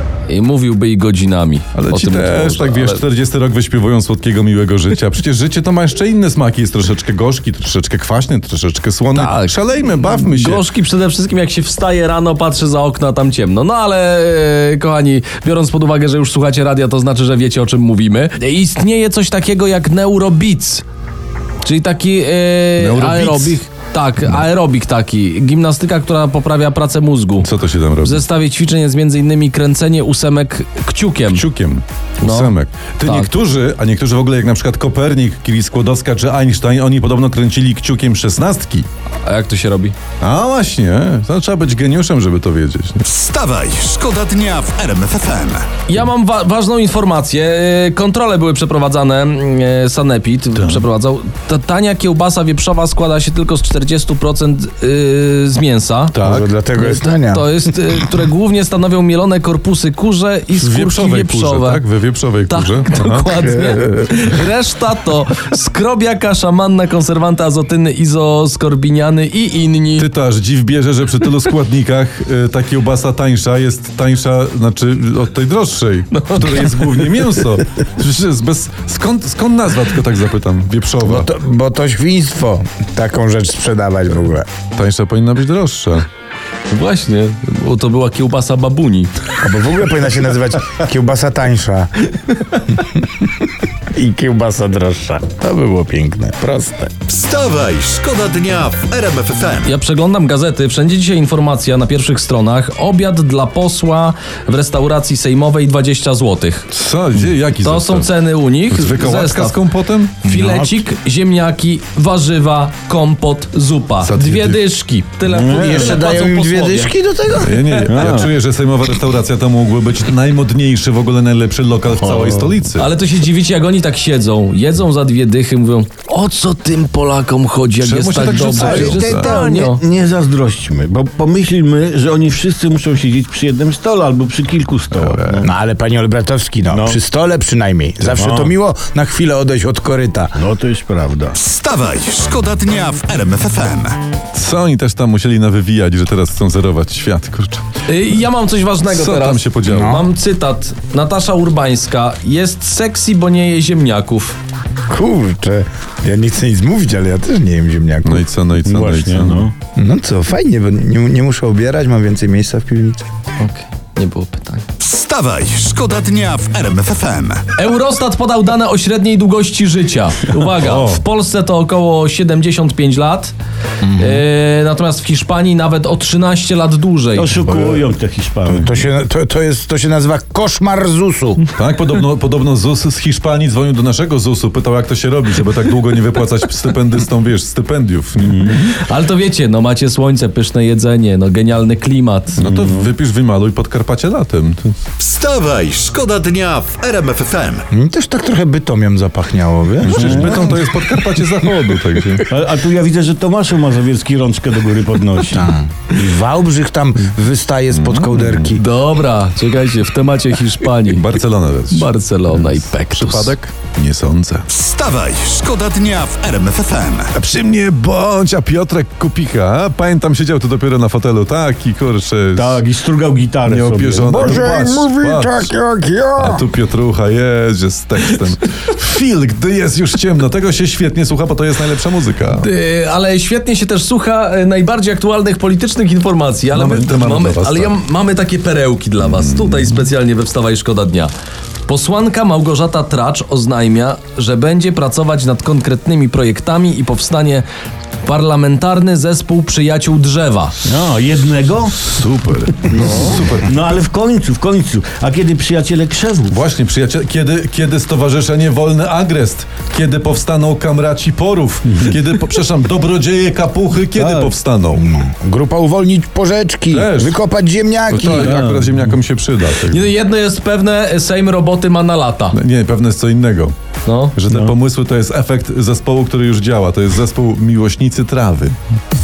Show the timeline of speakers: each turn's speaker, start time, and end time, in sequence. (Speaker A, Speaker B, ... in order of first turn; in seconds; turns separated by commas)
Speaker A: 0.3-3.0, Speaker B: 1.8-10.6, Speaker A: 9.1-20.8, Speaker A: 21.6-27.5, Speaker B: 22.8-23.6, Speaker B: 27.4-28.2, Speaker A: 28.0-31.4, Speaker B: 31.3-38.9, Speaker A: 32.2-33.3, Speaker A: 39.2-40.0, Speaker B: 40.2-43.0, Speaker C: 43.1-45.7, Speaker A: 45.9-56.1, Speaker B: 50.6-50.8, Speaker B: 56.1-56.5, Speaker D: 56.2-57.6, Speaker A: 56.8-61.8, Speaker B: 60.5-63.5, Speaker A: 62.5-70.1, Speaker B: 70.0-81.3, Speaker A: 76.1-77.4, Speaker D: 81.0-84.5, Speaker B: 84.8-86.1, Speaker A: 86.7-89.1, Speaker D: 89.4-92.1, Speaker D: 92.7-93.3, Speaker D: 93.9-96.9, Speaker C: 97.1-99.7, Speaker A: 99.7-106.7, Speaker B: 106.7-108.1, Speaker A: 107.6-109.6, Speaker B: 108.7-110.2, Speaker A: 110.2-116.9, Speaker D: 110.3-110.8, Speaker B: 114.0-114.6, Speaker E: 115.2-115.9, Speaker D: 115.5-118.1, Speaker B: 117.4-122.9, Speaker E: 117.8-118.3, Speaker A: 122.8-129.8, Speaker B: 127.8-129.4, Speaker D: 128.5-129.7, Speaker E: 129.3-135.5, Speaker B: 134.9-135.4, Speaker D: 135.4-140.4, Speaker E: 136.7-137.0, Speaker E: 138.1-138.5, Speaker E: 140.3-141.4, Speaker C: 141.4-144.0, Speaker B: 144.3-147.6, Speaker A: 147.9-154.4, Speaker B: 148.9-150.0, Speaker D: 149.7-150.1, Speaker D: 154.9-158.3, Speaker B: 158.0-159.5, Speaker E: 158.7-159.5, Speaker D: 159.8-163.0, Speaker A: 163.4-164.7, Speaker C: 164.8-167.4, Speaker A: 167.6-173.3, Speaker B: 170.5-171.0, Speaker D: 173.8-174.2, Speaker A: 174.0-177.4, Speaker E: 177.2-178.7, Speaker D: 177.5-177.8, Speaker D: 178.5-181.4, Speaker B: 181.6-188.6, Speaker E: 188.2-188.6, Speaker A: 188.6-192.4, Speaker B: 192.4-194.8, Speaker E: 192.5-192.9, Speaker C: 195.0-197.7, Speaker D: 197.7-200.6, Speaker B: 199.8-202.3, Speaker E: 199.9-200.6, Speaker E: 202.3-205.5, Speaker D: 205.3-208.6, Speaker B: 207.7-208.6, Speaker A: 208.6-211.1, Speaker B: 210.9-214.5, Speaker A: 211.7-213.3, Speaker C: 214.5-217.1, Speaker B: 217.1-222.6, Speaker E: 222.3-224.5, Speaker B: 223.5-225.5, Speaker D: 224.0-226.4, Speaker B: 226.2-232.5, Speaker A: 232.4-241.1, Speaker B: 236.5-237.8, Speaker B: 239.0-239.8, Speaker A: 241.7-247.5, Speaker A: 248.0-250.5, Speaker E: 250.6-251.9, Speaker B: 251.9-253.8, Speaker E: 252.7-256.4, Speaker B: 256.3-264.8, Speaker E: 263.9-264.4, Speaker D: 264.7-268.4, Speaker B: 266.7-267.2, Speaker B: 267.9-269.9, Speaker E: 268.0-268.9, Speaker A: 269.7-272.4, Speaker B: 272.3-273.5, Speaker A: 273.9-274.2, Speaker B: 274.1-278.6